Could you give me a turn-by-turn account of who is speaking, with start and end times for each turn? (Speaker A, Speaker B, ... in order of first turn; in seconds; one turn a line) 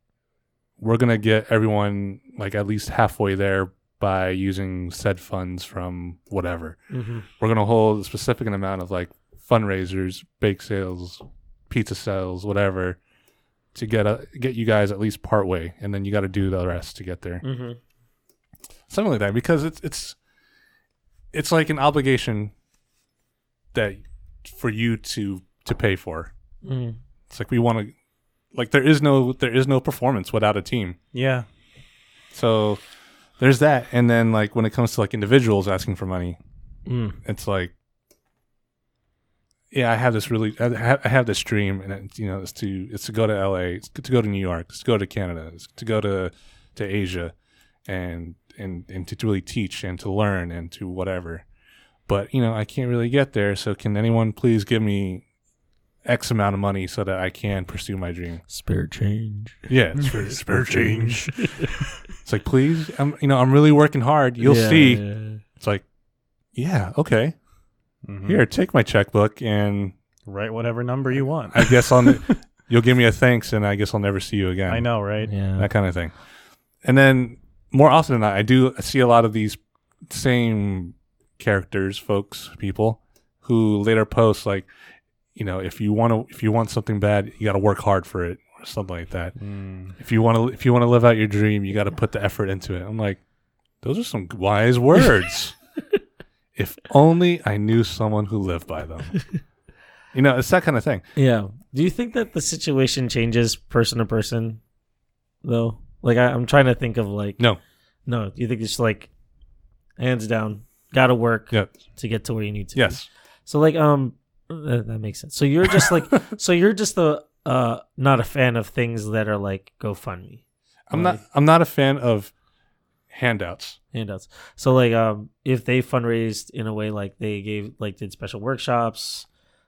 Speaker A: 0.8-13.0
Speaker B: 6.9-7.3
Speaker A: 13.7-17.4
Speaker B: 17.4-17.8
Speaker A: 18.9-20.2
Speaker A: 21.3-22.5
Speaker A: 23.7-26.3
Speaker B: 26.6-27.0
Speaker A: 27.3-27.9
Speaker A: 28.5-31.0
Speaker C: 31.1-31.5
Speaker A: 32.3-32.8
Speaker A: 33.4-36.4
Speaker B: 36.9-37.2
Speaker A: 37.2-37.7
Speaker A: 39.7-47.3
Speaker A: 47.9-51.5
Speaker A: 52.1-55.2
Speaker A: 56.0-58.4
Speaker B: 58.5-59.7
Speaker A: 59.7-61.3
Speaker C: 60.0-62.0
Speaker B: 61.3-61.7
Speaker A: 62.2-65.8
Speaker B: 64.4-65.4
Speaker A: 66.5-67.4
Speaker C: 68.0-68.4
Speaker A: 68.2-70.0
Speaker C: 70.3-72.4
Speaker A: 71.5-74.9
Speaker C: 74.7-75.3
Speaker B: 75.3-75.7
Speaker A: 75.5-76.1
Speaker A: 76.8-84.7
Speaker A: 85.3-89.4
Speaker C: 89.4-90.0
Speaker A: 90.0-93.2
Speaker A: 93.8-95.6
Speaker A: 96.5-99.2
Speaker A: 100.1-101.0
Speaker B: 101.2-104.6
Speaker B: 105.4-107.4
Speaker B: 108.1-109.1
Speaker B: 110.0-120.4
Speaker A: 111.5-111.8
Speaker A: 112.8-113.1
Speaker A: 120.9-122.3
Speaker B: 120.9-121.2
Speaker A: 123.1-123.8
Speaker B: 123.9-129.3